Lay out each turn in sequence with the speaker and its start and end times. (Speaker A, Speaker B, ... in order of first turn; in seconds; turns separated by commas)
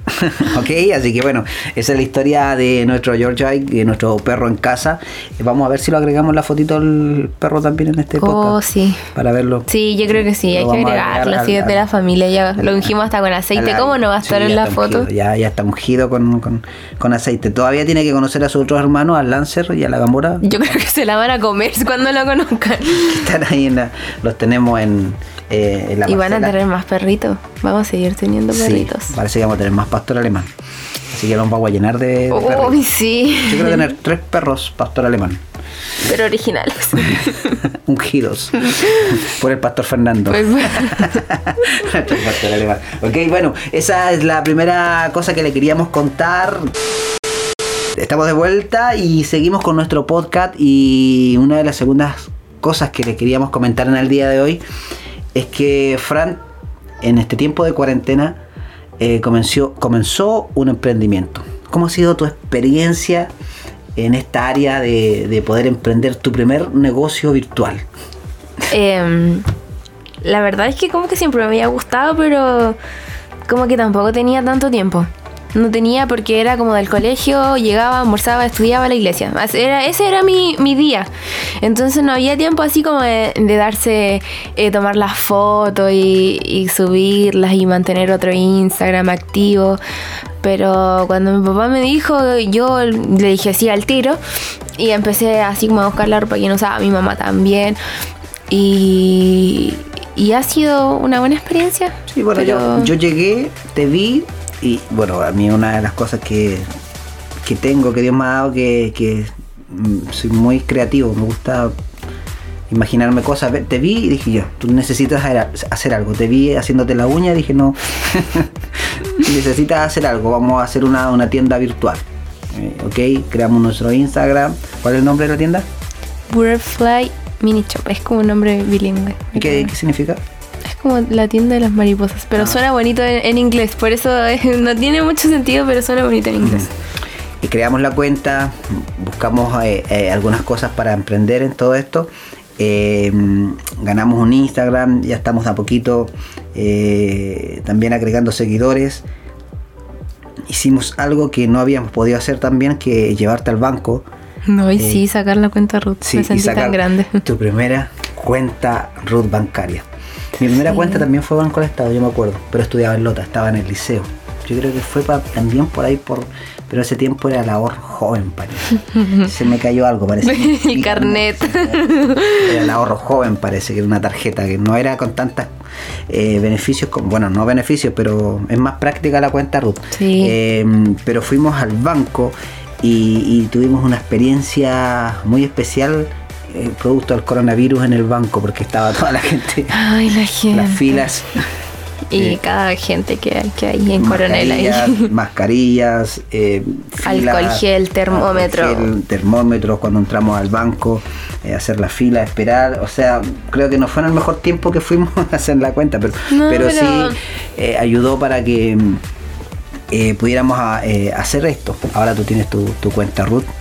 Speaker A: 0.2-8.6, Speaker B: 8.2-9.1, Speaker A: 9.1-11.9, Speaker B: 9.7-15.1, Speaker A: 12.6-12.9, Speaker A: 13.5-20.4, Speaker B: 20.4-23.3, Speaker A: 23.0-26.6, Speaker B: 26.1-29.1, Speaker A: 28.5-30.5, Speaker A: 31.1-32.9, Speaker B: 32.3-33.9, Speaker A: 33.4-35.4, Speaker B: 36.0-37.6, Speaker A: 37.7-46.7, Speaker B: 38.7-39.2, Speaker B: 40.3-41.2, Speaker A: 47.9-54.6, Speaker A: 55.3-56.4, Speaker A: 57.0-58.4, Speaker A: 59.0-63.3, Speaker A: 64.0-67.8, Speaker B: 68.7-69.5, Speaker B: 70.2-72.8, Speaker B: 73.5-81.1, Speaker B: 81.6-89.8, Speaker B: 90.4-94.2, Speaker B: 94.8-97.8, Speaker B: 98.5-102.9, Speaker A: 102.1-106.7, Speaker A: 107.4-111.7, Speaker A: 112.7-125.7, Speaker B: 126.3-129.7, Speaker A: 129.3-130.2, Speaker B: 130.6-136.7, Speaker A: 136.4-136.7, Speaker A: 137.4-149.0, Speaker A: 150.5-154.1, Speaker B: 154.4-157.2, Speaker A: 154.8-155.0, Speaker A: 156.0-159.8, Speaker A: 160.4-175.5, Speaker B: 160.5-161.0, Speaker B: 170.2-172.6, Speaker A: 176.1-189.8, Speaker B: 179.9-180.3, Speaker B: 189.7-191.1, Speaker A: 190.5-191.5, Speaker B: 192.1-195.1, Speaker A: 194.0-209.0, Speaker B: 197.0-198.9, Speaker B: 206.3-207.2, Speaker A: 209.9-213.5